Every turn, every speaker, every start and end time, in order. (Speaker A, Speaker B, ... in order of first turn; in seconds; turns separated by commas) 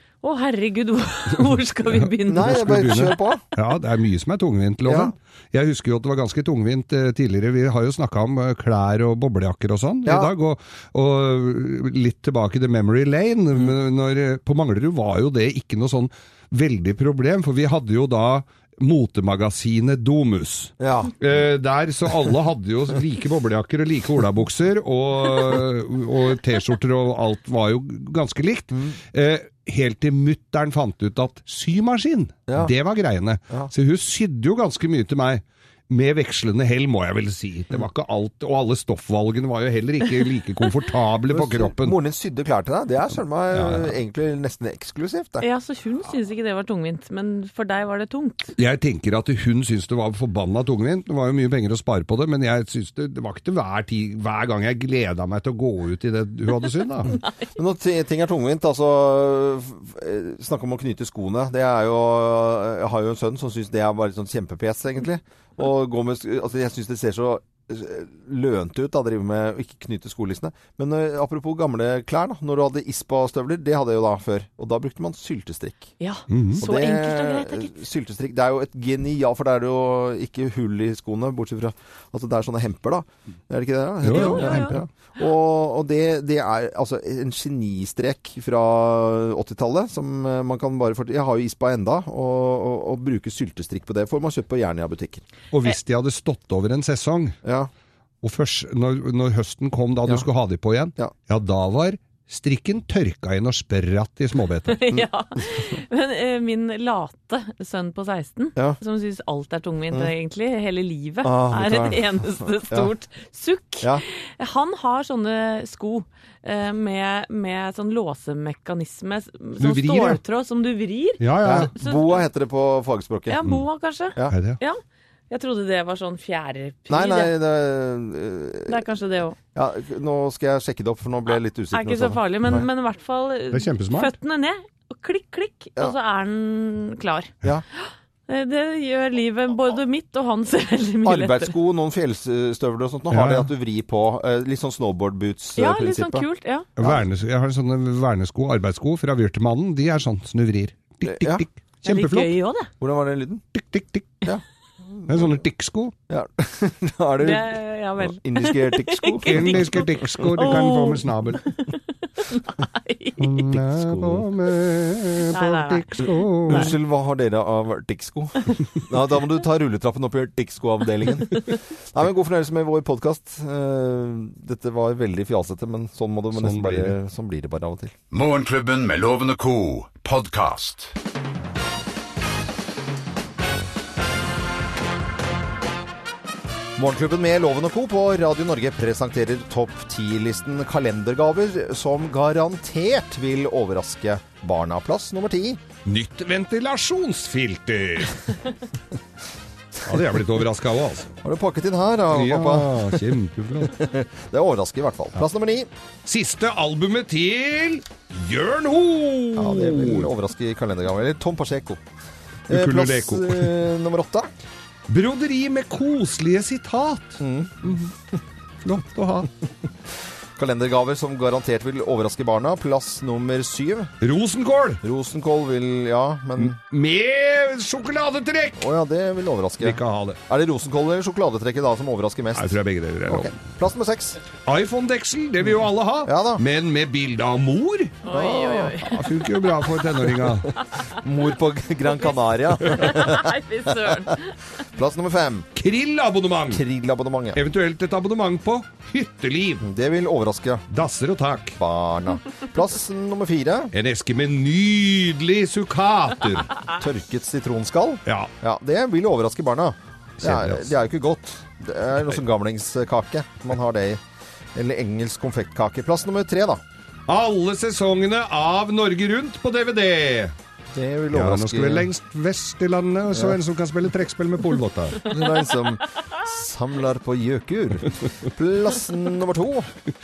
Speaker A: 0.2-2.7, Speaker B: 2.0-42.0, Speaker C: 2.3-3.4, Speaker C: 4.8-5.1, Speaker C: 10.1-10.3, Speaker C: 20.8-21.1, Speaker C: 28.7-29.0, Speaker C: 41.3-45.5, Speaker B: 43.5-43.9, Speaker A: 45.4-48.5, Speaker B: 48.6-57.1, Speaker C: 57.6-75.9, Speaker A: 76.0-77.7, Speaker B: 76.3-76.6, Speaker C: 76.6-95.2, Speaker B: 84.0-84.8, Speaker A: 84.1-84.8, Speaker B: 95.5-97.4, Speaker C: 97.5-97.7, Speaker B: 98.2-104.9, Speaker A: 104.7-122.2, Speaker C: 105.0-105.6, Speaker C: 111.2-112.9, Speaker B: 119.6-120.2, Speaker B: 121.2-121.7, Speaker C: 121.4-123.4, Speaker A: 123.3-127.3, Speaker B: 124.3-124.6, Speaker C: 126.9-128.8, Speaker A: 128.7-129.4, Speaker C: 129.5-132.6, Speaker A: 131.7-141.6, Speaker B: 133.5-134.1, Speaker C: 141.1-146.3, Speaker B: 143.1-143.5, Speaker A: 145.6-146.7, Speaker B: 146.8-152.3, Speaker C: 151.1-151.5, Speaker A: 151.9-152.7, Speaker C: 152.8-153.4, Speaker B: 153.6-154.2, Speaker C: 155.1-155.4, Speaker B: 155.1-155.9, Speaker C: 156.1-157.5, Speaker A: 157.2-163.5, Speaker C: 158.0-160.2, Speaker B: 159.2-161.5, Speaker B: 163.2-166.7, Speaker C: 163.8-164.2, Speaker A: 165.3-166.7, Speaker C: 166.5-177.9, Speaker B: 176.3-176.9, Speaker D: 178.1-180.9, Speaker C: 186.8-195.6, Speaker B: 195.8-198.2, Speaker B: 199.8-201.1, Speaker C: 201.2-203.0, Speaker B: 202.1-203.8, Speaker C: 203.7-205.7, Speaker B: 206.1-210.1, Speaker C: 209.4-211.8, Speaker C: 212.5-214.3, Speaker B: 212.5-213.6, Speaker B: 214.9-217.9, Speaker C: 217.2-217.8, Speaker B: 218.6-219.3, Speaker C: 220.4-223.9, Speaker B: 224.0-224.8, Speaker C: 224.8-226.6, Speaker B: 226.4-228.6, Speaker C: 228.6-234.2, Speaker B: 229.6-230.2, Speaker B: 232.3-233.4, Speaker B: 234.4-238.0, Speaker C: 236.1-236.4, Speaker A: 238.1-239.0, Speaker C: 238.1-238.9, Speaker B: 238.9-240.5, Speaker C: 241.0-244.1, Speaker A: 241.9-244.3, Speaker C: 244.8-245.5, Speaker B: 245.6-246.6, Speaker C: 246.5-247.4, Speaker B: 247.3-249.7, Speaker C: 249.6-250.7, Speaker B: 250.7-251.6, Speaker C: 251.6-253.7, Speaker B: 253.7-256.6, Speaker C: 256.8-264.0, Speaker B: 260.2-260.7, Speaker C: 264.6-266.6, Speaker B: 267.1-270.3, Speaker C: 270.7-271.9, Speaker B: 271.1-275.0, Speaker C: 273.1-273.4, Speaker C: 275.0-279.7